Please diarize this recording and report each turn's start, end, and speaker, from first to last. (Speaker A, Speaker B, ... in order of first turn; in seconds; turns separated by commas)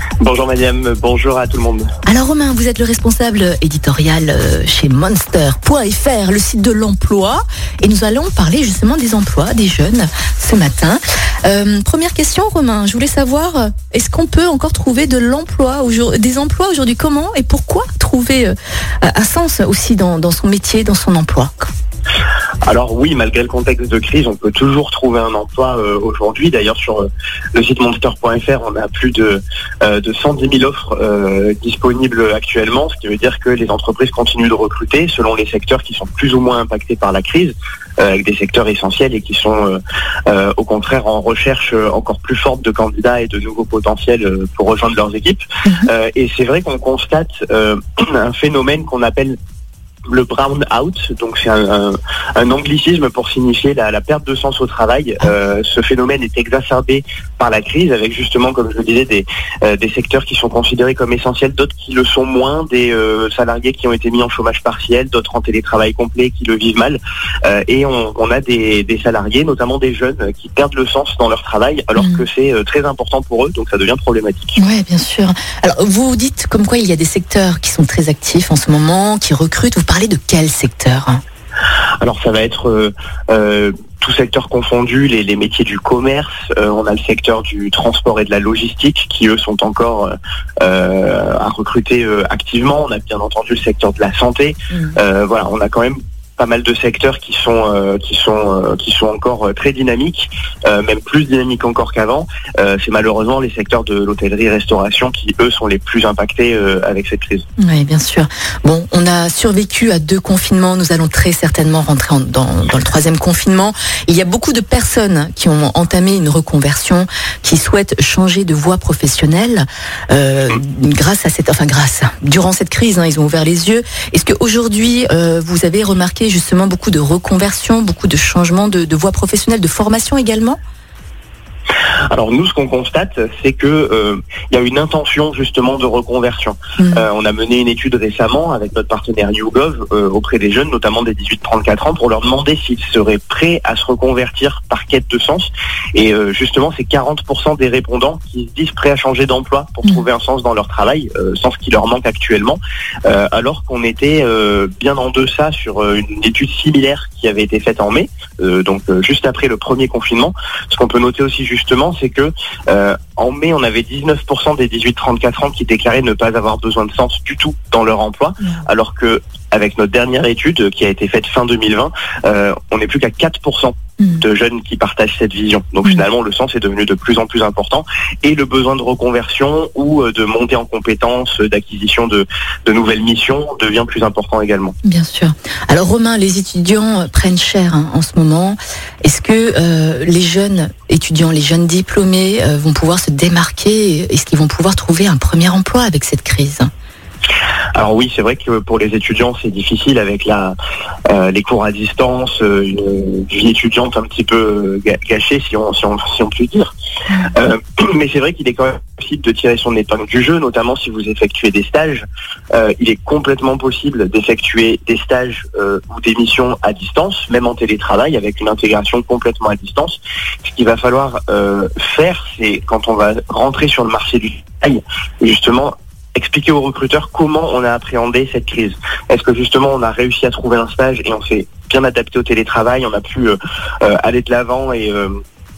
Speaker A: 0.2-1.9, Speaker B: 2.1-21.7, Speaker A: 22.7-49.4, Speaker A: 50.1-74.6, Speaker B: 72.0-72.2, Speaker B: 74.6-81.2, Speaker A: 82.0-107.5, Speaker B: 94.7-95.0, Speaker B: 107.6-130.6, Speaker A: 132.1-184.8, Speaker B: 136.8-137.1, Speaker B: 184.8-196.7, Speaker A: 197.8-200.6, Speaker A: 201.1-206.8, Speaker A: 207.3-235.2